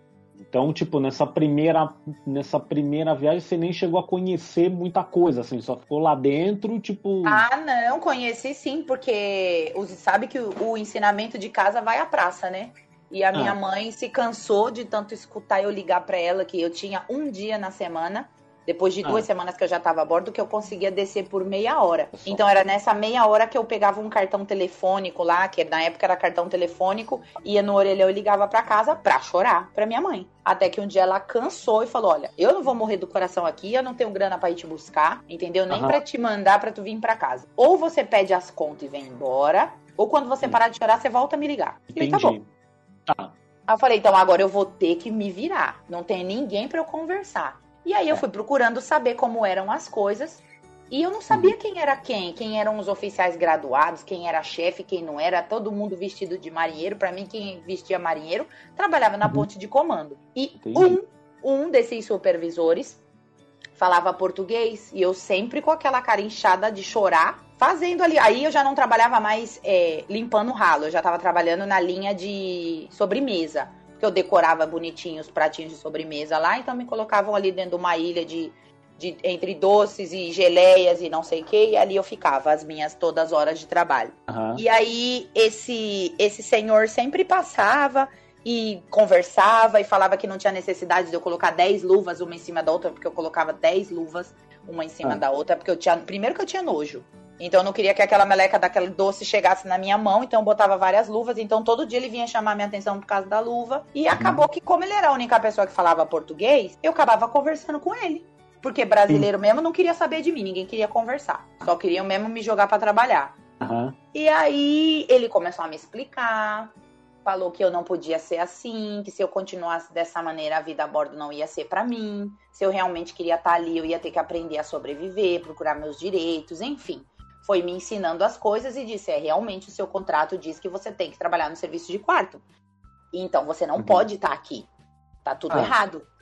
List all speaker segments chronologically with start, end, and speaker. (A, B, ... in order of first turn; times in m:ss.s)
0:00.4-0:07.4 A
0:07.2-0:42.3 B
0:22.1-0:22.4 A
0:35.7-0:36.0 A
0:41.9-0:42.5 A
0:43.1-0:43.3 A
0:43.7-1:03.0 B
1:00.6-1:01.0 A
1:03.8-1:53.4 B
1:24.3-1:24.6 A
1:44.1-1:44.4 A
1:53.6-1:54.0 A
1:54.1-1:56.7 B
1:57.2-2:12.4 B
2:13.1-2:14.7 B
2:13.8-2:14.0 A
2:15.2-2:16.1 B